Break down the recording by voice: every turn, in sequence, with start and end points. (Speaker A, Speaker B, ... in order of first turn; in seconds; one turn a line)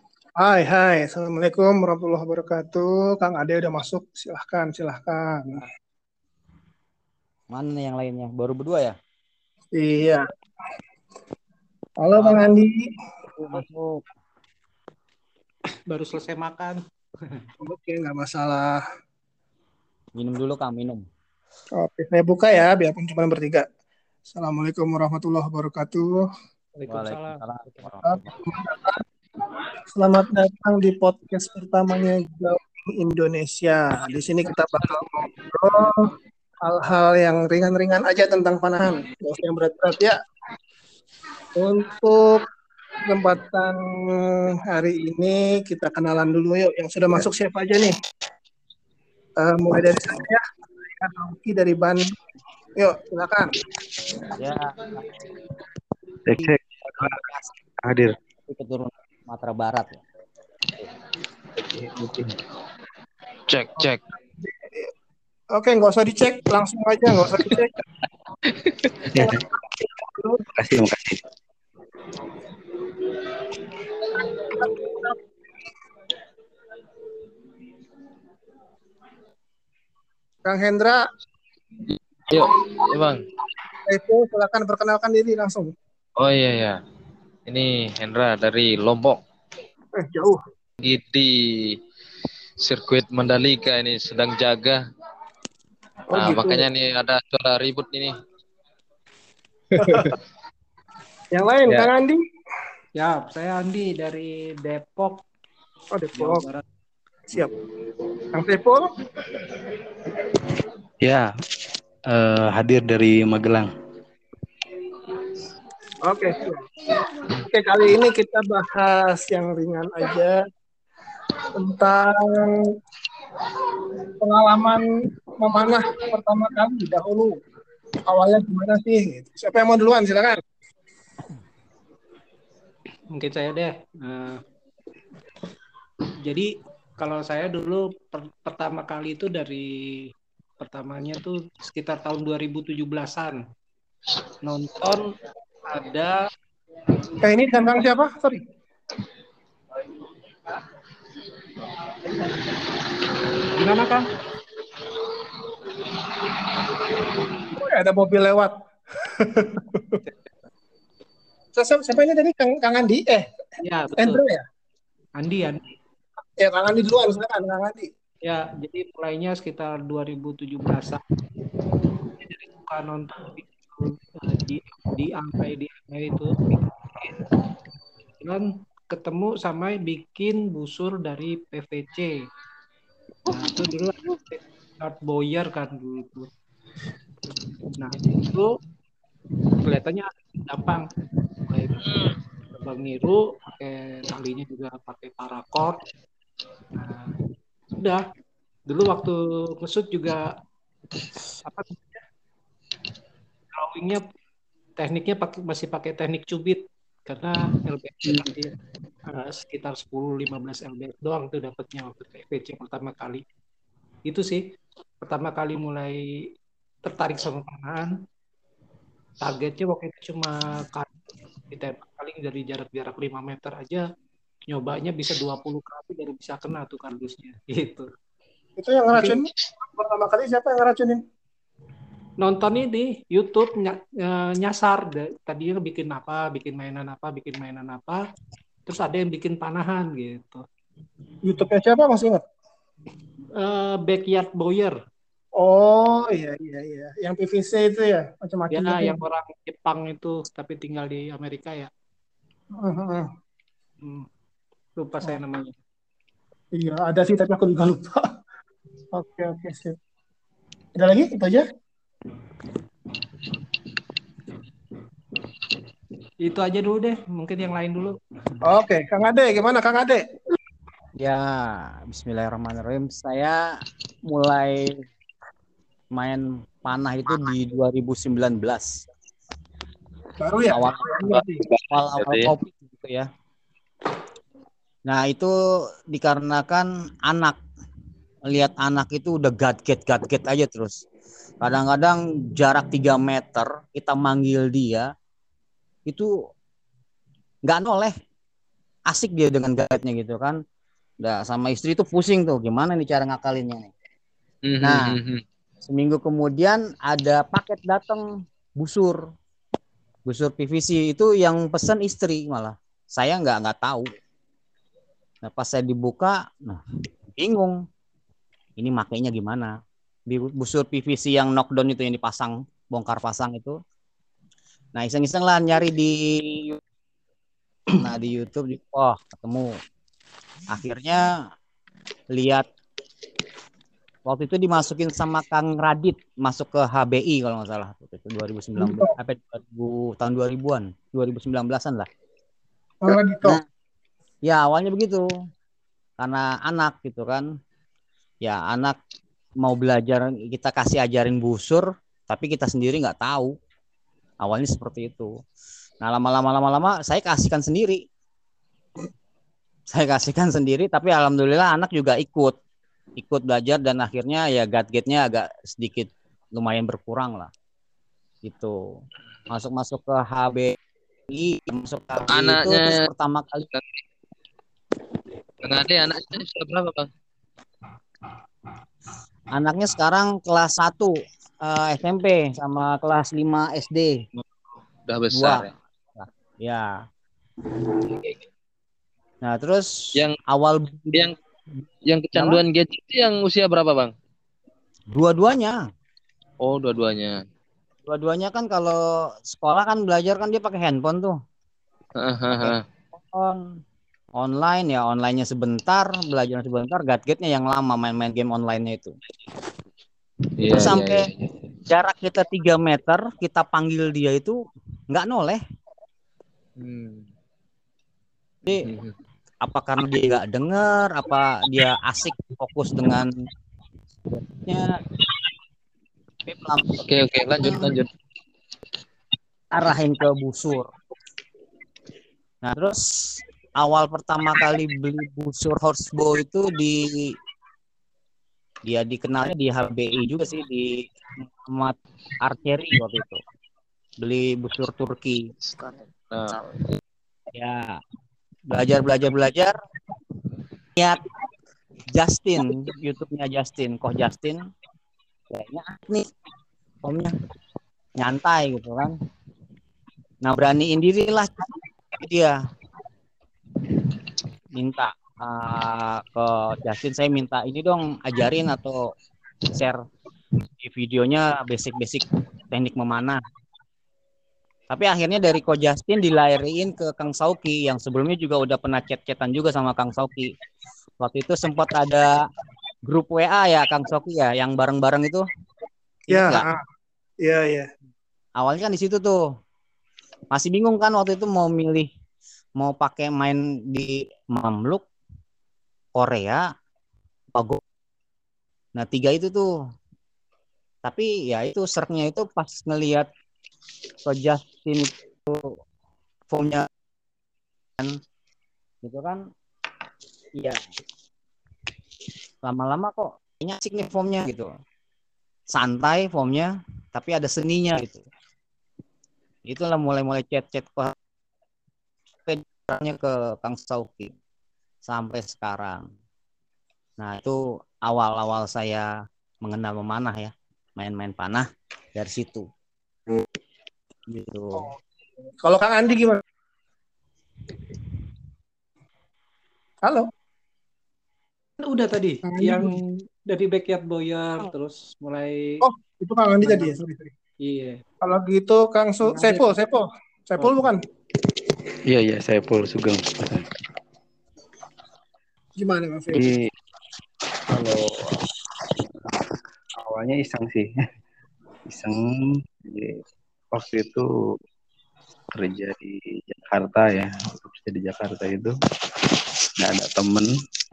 Speaker A: 0.4-5.6
Speaker B: 7.5-8.9
Speaker A: 9.8-10.2
Speaker A: 12.0-12.8
Speaker B: 13.4-14.0
Speaker C: 15.9-17.5
Speaker A: 17.6-18.8
Speaker B: 20.1-21.0
Speaker A: 21.8-23.6
Speaker A: 24.3-26.2
Speaker C: 26.7-27.4
Speaker B: 26.9-28.4
Speaker A: 28.1-29.0
Speaker A: 29.9-36.1
Speaker A: 36.6-40.1
Speaker A: 41.5-42.4
Speaker A: 43.0-47.9
Speaker A: 49.4-50.4
Speaker A: 51.0-52.0
Speaker A: 52.8-53.5
Speaker B: 54.4-54.8
Speaker D: 56.2-57.2
Speaker B: 56.4-57.5
Speaker D: 57.8-58.1
Speaker B: 58.5-60.0
Speaker D: 61.6-62.3
Speaker E: 63.5-64.0
Speaker A: 64.4-64.9
Speaker A: 65.5-67.7
Speaker D: 69.0-69.4
Speaker A: 70.0-70.4
Speaker D: 70.6-71.2
Speaker A: 74.3-75.1
Speaker A: 80.4-81.0
Speaker E: 82.3-83.2
Speaker A: 83.8-85.7
Speaker E: 86.2-86.8
Speaker E: 87.5-89.2
Speaker A: 90.0-90.4
Speaker E: 90.8-91.8
Speaker E: 92.6-94.8
Speaker A: 96.1-96.7
Speaker E: 96.1-98.1
Speaker A: 99.8-100.1
Speaker A: 101.3-102.2
Speaker C: 103.0-105.2
Speaker A: 105.9-106.4
Speaker C: 106.2-106.6
Speaker A: 108.3-108.9
Speaker D: 111.0-111.3
Speaker D: 112.1-113.7
Speaker A: 116.0-116.7
Speaker A: 117.3-120.3
Speaker A: 121.5-122.6
Speaker A: 124.2-127.3
Speaker A: 128.1-130.4
Speaker C: 133.1-134.4
Speaker C: 136.2-140.1
Speaker C: 140.6-143.4
Speaker C: 144.4-145.1
Speaker C: 145.7-146.2
Speaker A: 147.2-148.4
Speaker C: 153.5-154.1
Speaker A: 157.4-158.5
Speaker A: 159.1-160.0
Speaker A: 161.5-163.3
Speaker C: 163.6-164.2
Speaker A: 163.9-164.4
Speaker C: 165.2-165.6
Speaker A: 166.4-167.9
Speaker C: 168.2-171.0
Speaker C: 172.2-176.6
Speaker C: 178.2-182.1
Speaker C: 183.3-186.3
Speaker C: 187.8-188.6
Speaker C: 189.6-190.9
Speaker C: 191.5-191.9
Speaker C: 192.5-195.8
Speaker C: 196.7-197.1
Speaker C: 197.7-198.0
Speaker C: 198.7-200.3
Speaker C: 201.4-202.0
Speaker C: 203.5-204.0
Speaker C: 204.8-208.5
Speaker C: 209.1-213.2
Speaker C: 214.1-214.4
Speaker C: 215.0-216.0
Speaker C: 216.8-217.9
Speaker C: 219.2-220.9
Speaker C: 221.5-223.8
Speaker C: 224.5-227.9
Speaker A: 228.6-231.0
Speaker C: 232.2-238.0
Speaker C: 238.7-240.4
Speaker A: 241.2-242.2
Speaker C: 243.4-244.8
Speaker A: 245.4-249.0
Speaker C: 248.5-251.7
Speaker A: 252.6-253.1
Speaker C: 254.8-255.5
Speaker A: 256.6-258.0
Speaker A: 258.9-259.8
Speaker A: 260.8-261.4
Speaker C: 266.2-267.9
Speaker A: 268.4-270.0
Speaker B: 271.0-273.4
Speaker B: 274.1-274.9
Speaker B: 275.9-278.7
Speaker A: 280.2-281.4
Speaker B: 280.5-283.1
Speaker E: 281.9-282.3
Speaker B: 284.9-285.3
Speaker B: 285.9-287.4
Speaker B: 288.3-290.8
Speaker B: 291.4-294.9
Speaker B: 297.5-297.9
Speaker B: 298.9-300.4
Speaker B: 301.0-303.7
Speaker E: 304.4-305.2
Speaker B: 304.6-304.9
Speaker B: 305.7-308.0
Speaker B: 308.6-309.0
Speaker B: 310.1-313.9
Speaker B: 315.2-316.6
Speaker B: 317.2-317.6
Speaker B: 318.6-319.5
Speaker B: 320.1-323.6
Speaker B: 324.7-326.6
Speaker B: 327.8-329.6
Speaker B: 330.5-331.1
Speaker B: 332.1-332.5
Speaker B: 334.1-341.9
Speaker A: 338.6-338.9
Speaker A: 342.8-343.4
Speaker B: 342.9-343.4
Speaker B: 344.2-345.0
Speaker B: 346.0-347.3
Speaker B: 348.2-348.8
Speaker B: 349.4-353.3
Speaker B: 354.2-355.1
Speaker B: 355.8-357.8
Speaker B: 359.7-362.3
Speaker B: 363.0-367.3
Speaker B: 368.2-368.6
Speaker B: 369.3-370.6
Speaker B: 371.1-373.5
Speaker E: 372.1-372.8
Speaker E: 375.4-376.9
Speaker B: 379.3-384.0
Speaker E: 384.9-385.5
Speaker B: 385.1-385.4
Speaker B: 386.0-386.7
Speaker E: 387.9-388.2
Speaker B: 389.2-389.7
Speaker B: 390.3-391.1
Speaker E: 391.8-393.9
Speaker B: 392.1-392.4
Speaker B: 394.9-395.6
Speaker E: 396.4-397.2
Speaker B: 397.9-401.1
Speaker E: 402.0-402.6
Speaker B: 403.1-403.4
Speaker B: 404.2-408.9
Speaker E: 410.4-411.1
Speaker B: 410.4-411.0
Speaker B: 411.7-414.4
Speaker B: 414.9-415.4
Speaker E: 416.6-417.1
Speaker E: 418.6-418.9
Speaker B: 419.4-423.1
Speaker B: 424.1-424.8
Speaker B: 426.3-426.7
Speaker E: 426.8-427.9
Speaker B: 427.4-427.7
Speaker B: 429.5-430.7
Speaker B: 432.4-432.8
Speaker B: 433.6-437.1
Speaker B: 438.7-440.8
Speaker B: 441.5-443.2
Speaker B: 444.0-445.2
Speaker E: 445.5-446.5
Speaker B: 447.3-447.8
Speaker B: 448.5-449.6
Speaker B: 450.8-451.0
Speaker B: 451.9-454.4
Speaker B: 455.3-456.1
Speaker B: 456.8-457.1
Speaker B: 458.0-458.9
Speaker B: 460.2-461.3
Speaker B: 462.0-462.3
Speaker B: 464.6-468.9
Speaker B: 469.5-469.8
Speaker B: 470.6-473.2
Speaker B: 474.7-480.3
Speaker B: 481.0-482.2
Speaker B: 482.8-485.2
Speaker B: 486.1-486.4
Speaker A: 486.1-486.6
Speaker A: 487.2-487.7
Speaker B: 488.4-489.2
Speaker B: 490.3-491.9
Speaker B: 492.6-494.8
Speaker B: 495.9-496.4
Speaker B: 497.3-497.6
Speaker B: 498.8-499.5
Speaker B: 500.8-503.1
Speaker B: 504.0-505.4
Speaker B: 506.3-506.7
Speaker B: 508.8-509.2
Speaker B: 512.4-514.5
Speaker B: 515.5-518.0
Speaker B: 519.5-520.9
Speaker B: 522.3-524.1
Speaker B: 524.8-525.8
Speaker B: 527.0-528.9
Speaker B: 529.4-532.5
Speaker B: 534.1-534.7
Speaker A: 535.4-536.2
Speaker C: 541.6-545.6
Speaker A: 542.3-542.7
Speaker A: 545.6-547.1
Speaker C: 546.4-546.7
Speaker C: 547.4-547.8
Speaker A: 548.0-550.8
Speaker C: 549.0-549.5
Speaker C: 550.4-550.7
Speaker D: 551.9-553.5
Speaker A: 555.6-556.3
Speaker D: 556.1-556.5
Speaker D: 557.5-557.9
Speaker D: 559.8-560.7
Speaker D: 561.7-563.0
Speaker D: 563.5-564.1
Speaker D: 565.3-568.5
Speaker D: 569.6-570.3